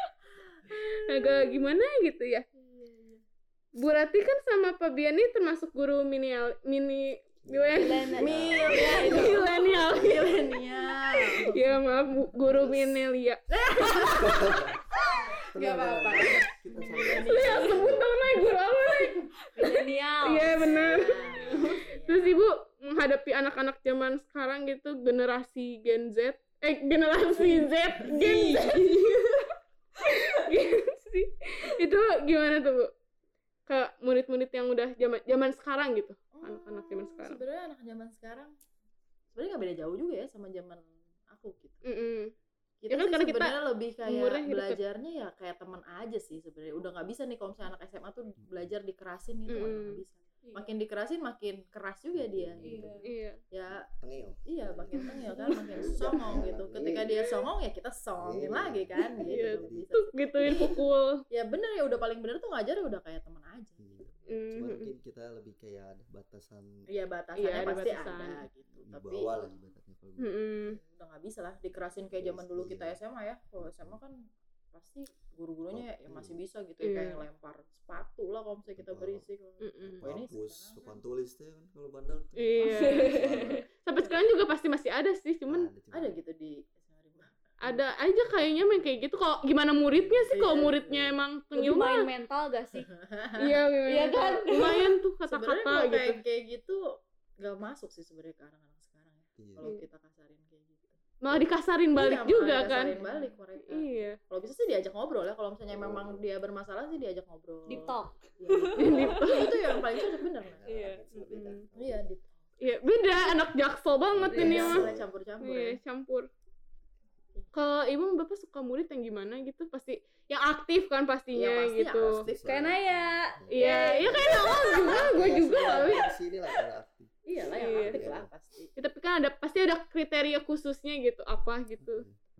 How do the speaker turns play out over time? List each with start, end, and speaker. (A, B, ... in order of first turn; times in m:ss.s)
0:00.5-0:01.6 A
0:00.7-0:02.4 B
0:02.6-0:03.2 A
0:03.8-0:08.2 B
0:07.4-0:10.7 C
0:07.8-0:09.6 D
0:08.2-0:12.2 A
0:08.7-0:10.5 B
0:11.4-0:14.3 B
0:12.4-0:13.0 C
0:13.5-0:18.0 A
0:14.2-0:14.8 C
0:15.5-0:18.1 C
0:17.0-0:29.3 B
0:19.5-0:21.8 D
0:20.4-0:22.4 A
0:27.4-0:29.4 D
0:28.0-0:28.5 A
0:30.0-0:32.9 B
0:33.7-0:37.4 B
0:36.3-0:38.5 A
0:39.3-0:41.8 A
0:41.8-0:42.3 B
0:42.8-0:53.8 A
0:42.9-0:44.8 B
0:48.4-0:48.7 C
0:49.5-0:50.0 B
0:52.1-0:53.0 C
0:52.6-0:53.0 D
0:53.0-0:53.4 B
0:53.6-0:55.0 C
0:54.4-1:00.8 A
0:55.0-0:55.9 B
0:55.7-0:57.3 C
0:58.2-0:59.9 C
0:59.2-1:01.2 B
1:01.3-1:03.9 A
1:03.8-1:06.7 C
1:04.3-1:04.9 B
1:06.9-1:09.4 A
1:07.4-1:08.4 B
1:08.8-1:10.8 C
1:10.2-1:10.8 B
1:10.7-1:14.2 A
1:12.1-1:13.0 C
1:13.6-1:14.0 C
1:14.7-1:21.0 A
1:15.7-1:16.3 C
1:16.8-1:17.2 B
1:18.7-1:19.3 C
1:19.6-1:20.0 B
1:19.8-1:23.6 C
1:22.4-1:25.7 B
1:22.6-1:23.6 D
1:25.5-1:26.2 C
1:25.9-1:27.4 A
1:27.6-1:32.1 B
1:29.9-1:31.2 C
1:30.3-1:31.0 A
1:31.5-1:32.9 D
1:32.7-1:33.5 A
1:33.4-1:36.2 B
1:33.9-1:34.9 D
1:34.5-1:41.0 A
1:39.4-1:39.7 C
1:41.2-1:43.0 B
1:41.9-1:50.6 A
1:42.7-1:43.3 D
1:43.6-1:44.2 B
1:45.7-1:46.2 C
1:47.7-1:51.0 D
1:48.8-1:49.6 B
1:50.4-1:52.0 C
1:51.1-1:51.6 B
1:51.7-1:52.8 A
1:52.6-1:54.8 B
1:54.1-1:55.1 C
1:54.2-1:55.8 A
1:55.4-1:56.3 B
1:57.5-2:02.2 B
2:01.3-2:02.4 A
2:02.0-2:07.1 C
2:02.4-2:04.6 D
2:03.5-2:06.1 B
2:07.2-2:08.7 A
2:07.5-2:08.1 B
2:07.8-2:08.3 C
2:08.8-2:12.0 B
2:11.8-2:12.2 C